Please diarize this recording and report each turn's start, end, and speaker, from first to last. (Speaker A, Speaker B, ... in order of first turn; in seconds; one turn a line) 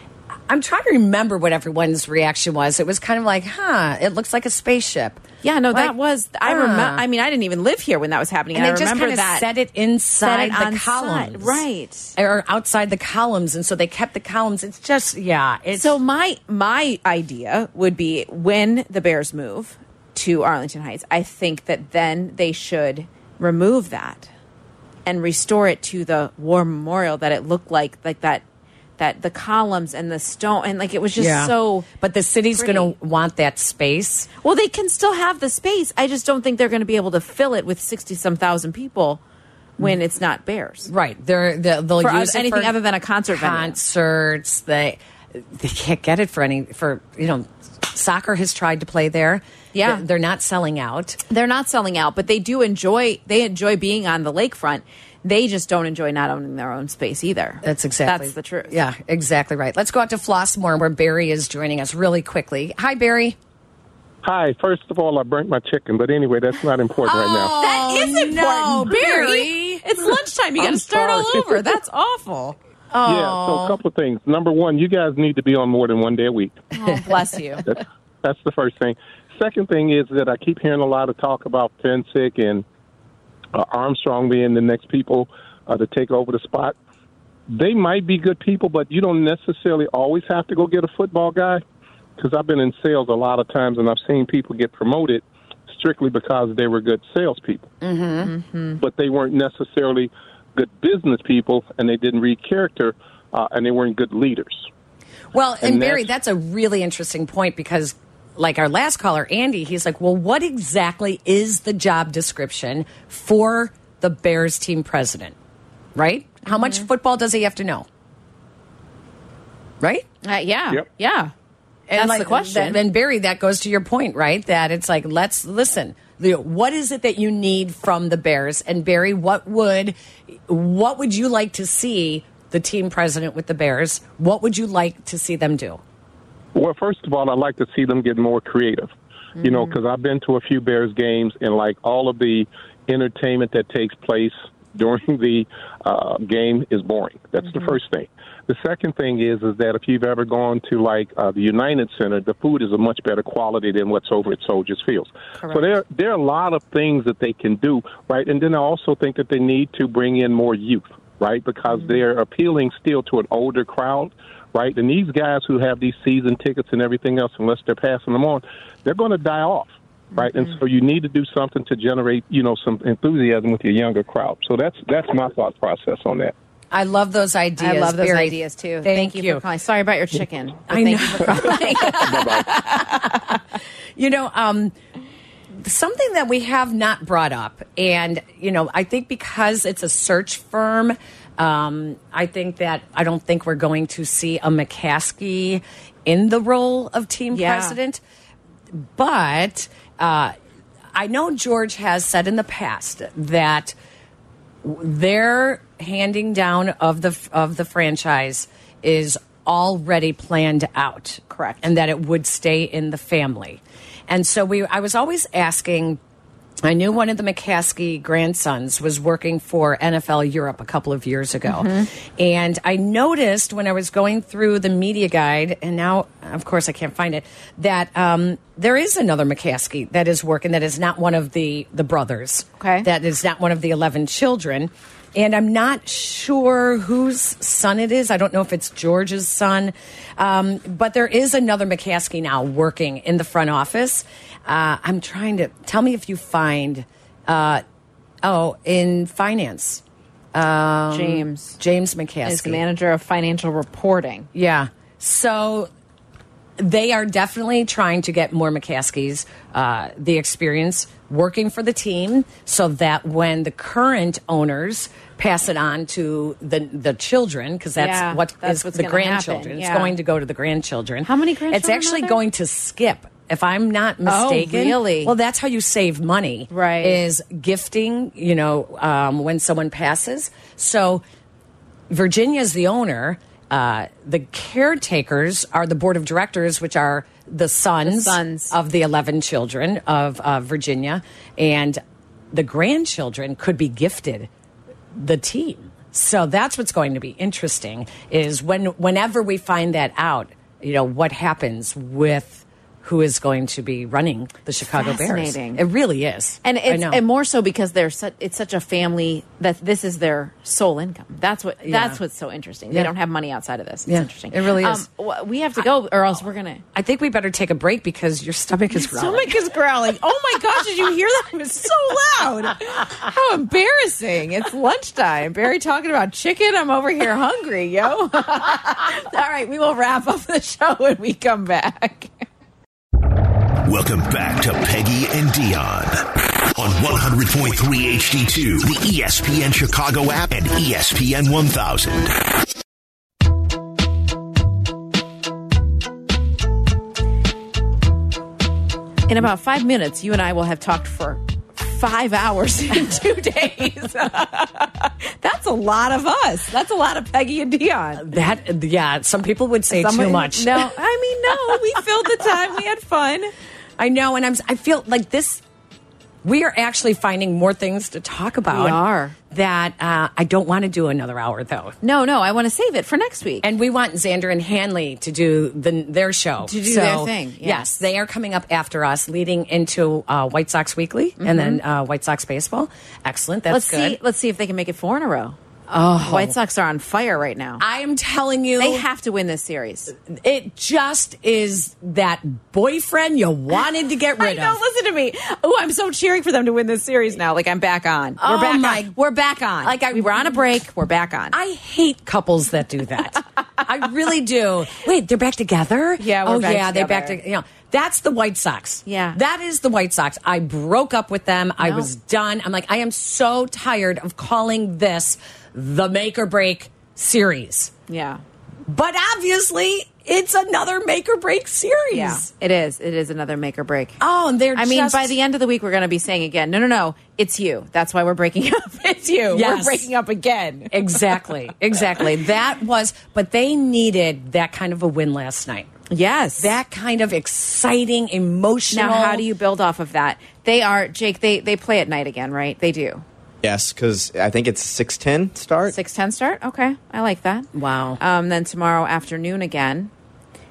Speaker A: 0.5-7.0
Speaker B: 5.4-9.4
Speaker A: 8.5-11.6
Speaker B: 10.2-12.1
Speaker A: 12.2-16.0
Speaker B: 15.7-24.3
Speaker B: 25.1-28.4
Speaker B: 29.0-31.9
Speaker A: 31.2-34.3
Speaker B: 32.5-32.9
Speaker B: 34.4-39.2
Speaker B: 39.8-40.9
Speaker A: 40.9-42.7
Speaker B: 42.0-43.8
Speaker A: 43.3-51.2
Speaker B: 49.7-50.0
Speaker B: 51.3-58.8
Speaker A: 57.6-63.4
Speaker C: 64.2-67.5
Speaker A: 67.1-71.3
Speaker B: 67.4-72.6
Speaker A: 72.9-73.8
Speaker C: 73.0-76.6
Speaker B: 76.7-77.6
Speaker C: 77.7-82.6
Speaker C: 83.5-86.8
Speaker C: 87.5-91.6
Speaker C: 92.2-97.7
Speaker A: 97.8-98.3
Speaker B: 98.2-98.8
Speaker C: 98.8-104.7
Speaker A: 105.3-115.3
Speaker C: 105.6-106.1
Speaker A: 115.9-117.9
Speaker B: 116.5-116.8
Speaker A: 119.8-120.0
Speaker B: 120.2-121.3
Speaker A: 121.9-129.9
Speaker B: 122.0-122.8
Speaker A: 130.5-135.8
Speaker C: 136.5-176.3
Speaker B: 139.4-139.7
Speaker A: 176.7-179.4
Speaker B: 177.6-183.4
Speaker A: 180.7-182.4
Speaker A: 184.0-184.7
Speaker A: 185.6-198.0
Speaker B: 197.3-197.8
Speaker A: 198.7-200.3
Speaker A: 200.9-203.7
Speaker A: 204.6-216.0
Speaker B: 211.3-211.6
Speaker A: 216.6-247.6
Speaker B: 221.4-221.9
Speaker B: 232.6-232.9
Speaker A: 248.2-249.8
Speaker A: 250.3-252.6
Speaker B: 250.9-251.6
Speaker B: 252.2-254.3
Speaker A: 254.3-255.7
Speaker A: 256.6-281.0
Speaker B: 267.8-269.9
Speaker B: 271.0-272.2
Speaker B: 274.1-275.1
Speaker B: 276.5-277.0
Speaker A: 281.9-291.8
Speaker B: 287.8-288.5
Speaker A: 292.3-294.3
Speaker A: 294.9-307.0
Speaker B: 304.7-305.6
Speaker B: 306.4-316.6
Speaker A: 311.6-312.0
Speaker A: 313.9-314.8
Speaker A: 316.7-319.3
Speaker B: 318.7-332.1
Speaker D: 333.6-342.1
Speaker B: 349.1-358.1
Speaker A: 358.0-360.7
Speaker B: 359.7-363.3
Speaker A: 363.8-365.4
Speaker A: 366.2-368.8
Speaker B: 368.5-369.1
Speaker A: 369.3-371.7
Speaker B: 371.8-373.4
Speaker A: 373.4-384.0
Speaker B: 376.4-377.7
Speaker B: 381.2-381.6
Speaker B: 383.5-385.4
Speaker A: 385.7-386.4
Speaker B: 386.0-387.6
Speaker A: 387.6-388.8
Speaker B: 388.6-389.9
Speaker A: 389.9-394.6
Speaker B: 394.2-401.3
Speaker A: 398.2-398.9
Speaker A: 399.6-400.4
Speaker A: 401.3-417.7
Speaker B: 406.0-407.2
Speaker B: 408.9-409.2
Speaker B: 411.6-411.9
Speaker B: 417.9-418.2
Speaker A: 418.7-422.2
Speaker B: 421.9-424.0
Speaker A: 424.0-425.1
Speaker B: 424.5-431.3
Speaker A: 429.3-429.9
Speaker A: 430.7-435.7
Speaker B: 435.9-436.5
Speaker A: 436.4-439.2
Speaker B: 438.7-443.0
Speaker E: 443.4-445.8
Speaker B: 445.7-449.9
Speaker A: 447.5-448.0